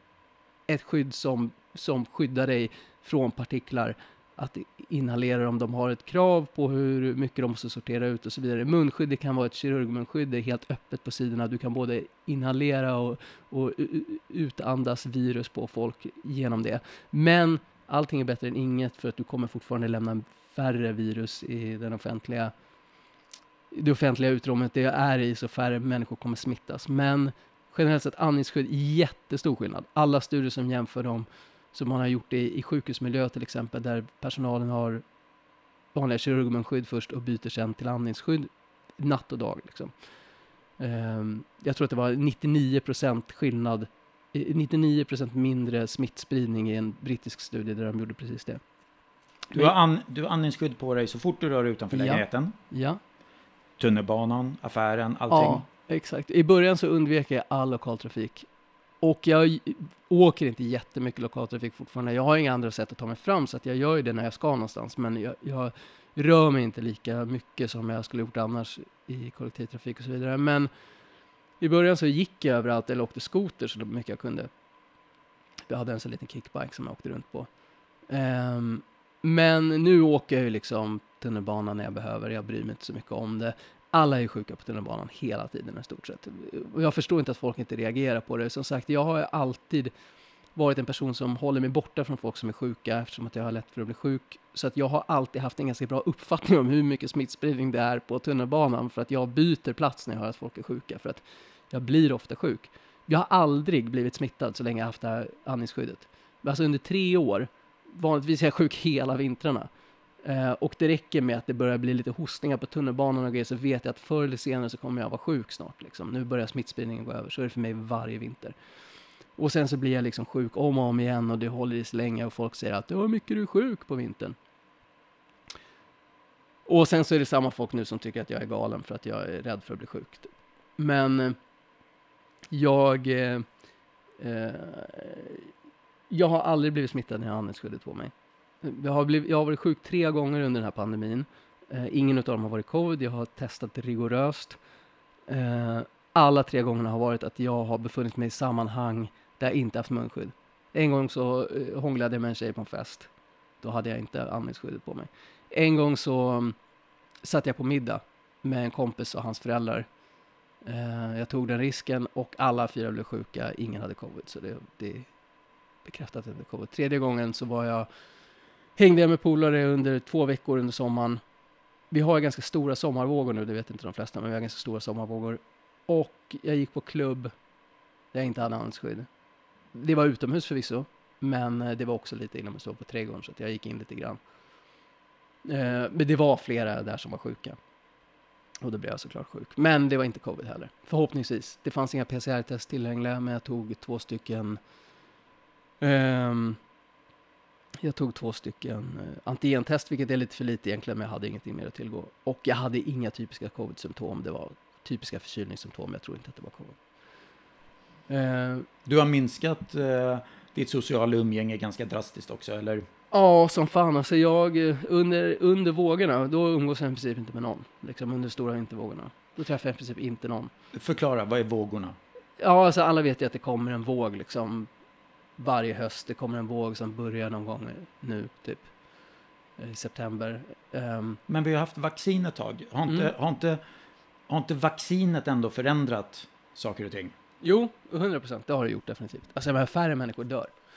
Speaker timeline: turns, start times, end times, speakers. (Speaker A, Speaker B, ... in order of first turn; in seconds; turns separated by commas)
Speaker A: 0.7-22.5, Speaker A: 23.7-35.0, Speaker A: 35.9-39.9, Speaker A: 40.8-48.6, Speaker B: 49.5-52.5, Speaker A: 51.9-53.0, Speaker B: 53.8-55.6, Speaker A: 55.3-58.5, Speaker A: 59.0-70.7, Speaker A: 71.6-74.5, Speaker A: 75.7-77.5, Speaker A: 78.1-89.9, Speaker A: 90.5-109.7, Speaker A: 110.2-118.5, Speaker A: 119.4-124.4, Speaker A: 126.7-131.4, Speaker A: 132.5-133.4, Speaker A: 134.2-135.5, Speaker A: 136.1-144.6, Speaker A: 145.3-153.1, Speaker A: 153.6-156.6, Speaker A: 157.2-159.9, Speaker A: 160.6-165.1, Speaker A: 165.8-167.9, Speaker A: 168.8-171.2, Speaker A: 171.9-177.3, Speaker A: 178.1-179.1, Speaker A: 179.7-184.2, Speaker A: 185.4-187.6, Speaker A: 188.6-194.6, Speaker A: 195.8-196.6, Speaker A: 197.8-206.8, Speaker A: 208.1-208.7, Speaker B: 208.9-212.9, Speaker A: 213.1-220.5, Speaker B: 220.7-221.9, Speaker A: 222.4-224.7, Speaker A: 225.4-228.7, Speaker A: 229.6-231.2, Speaker B: 231.3-233.6, Speaker B: 234.3-237.1, Speaker A: 237.4-240.5